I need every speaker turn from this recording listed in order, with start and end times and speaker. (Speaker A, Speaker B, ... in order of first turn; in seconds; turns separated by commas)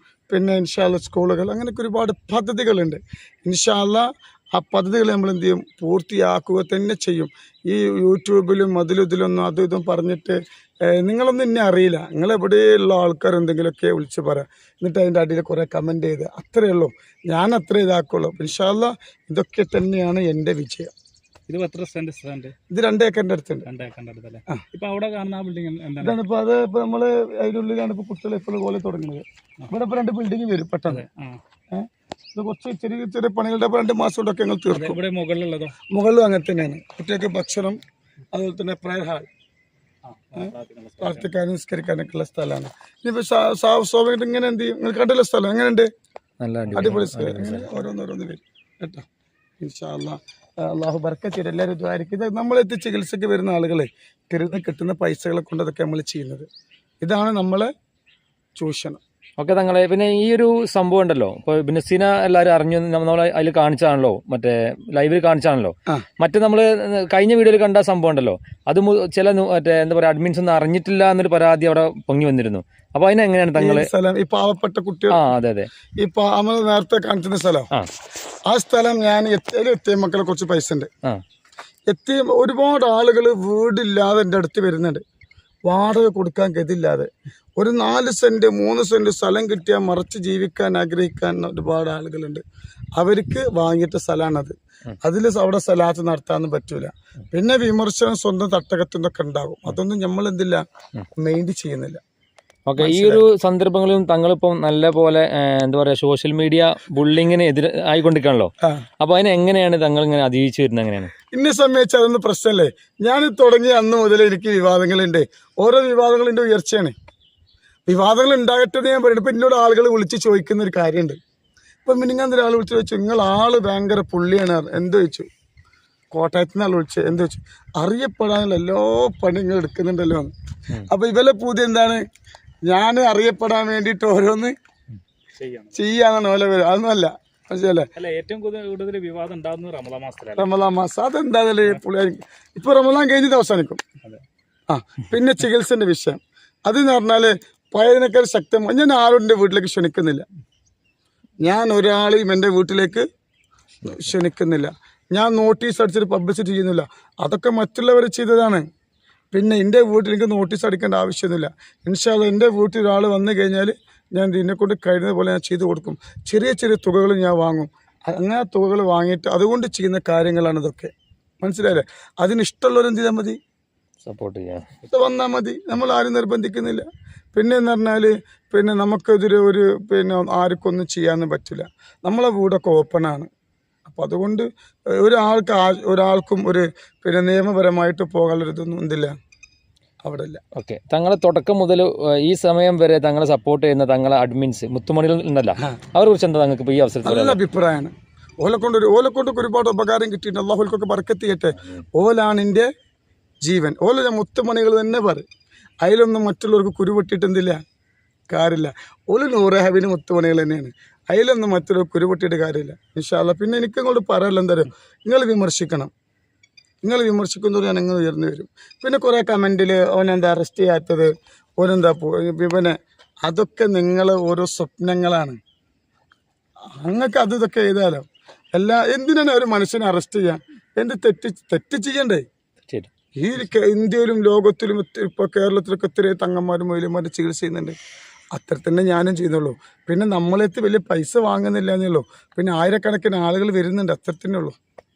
Speaker A: 0.3-10.4, Speaker A: 10.9-20.9, Speaker B: 21.5-22.5, Speaker A: 22.7-23.7, Speaker B: 23.6-26.2, Speaker A: 26.0-31.0, Speaker B: 30.9-31.4, Speaker A: 31.7-35.0, Speaker B: 34.7-35.8, Speaker A: 35.9-37.8, Speaker A: 38.3-39.3, Speaker B: 40.0-41.3, Speaker A: 40.4-45.9, Speaker C: 46.4-47.7, Speaker B: 46.7-47.0, Speaker A: 46.7-49.0, Speaker A: 49.6-56.5, Speaker A: 57.0-57.7, Speaker A: 58.6-59.0, Speaker C: 59.4-73.9, Speaker A: 73.5-75.3, Speaker C: 75.1-75.7, Speaker A: 76.0-77.7, Speaker A: 78.5-80.9, Speaker A: 81.9-85.0, Speaker A: 85.7-92.4, Speaker A: 93.0-100.6, Speaker A: 101.2-102.0, Speaker C: 102.7-111.1, Speaker A: 102.8-103.3, Speaker A: 111.3-116.9, Speaker A: 117.9-121.2, Speaker A: 121.8-125.3, Speaker A: 126.1-130.3, Speaker A: 130.9-132.0, Speaker A: 132.7-134.5, Speaker B: 135.3-135.8, Speaker A: 135.7-137.9, Speaker B: 137.9-140.5, Speaker A: 140.3-143.8, Speaker A: 144.7-150.2, Speaker A: 151.4-153.0, Speaker A: 153.8-158.6, Speaker A: 159.3-173.4, Speaker C: 174.0-174.7, Speaker A: 174.9-183.3, Speaker A: 183.8-184.4, Speaker A: 185.0-189.1, Speaker A: 190.0-190.4, Speaker C: 190.6-197.4, Speaker A: 197.0-202.7, Speaker A: 203.4-205.2, Speaker A: 205.8-207.6, Speaker A: 208.3-215.9, Speaker A: 216.8-225.4, Speaker A: 226.8-232.2, Speaker A: 233.2-237.8, Speaker A: 238.3-244.5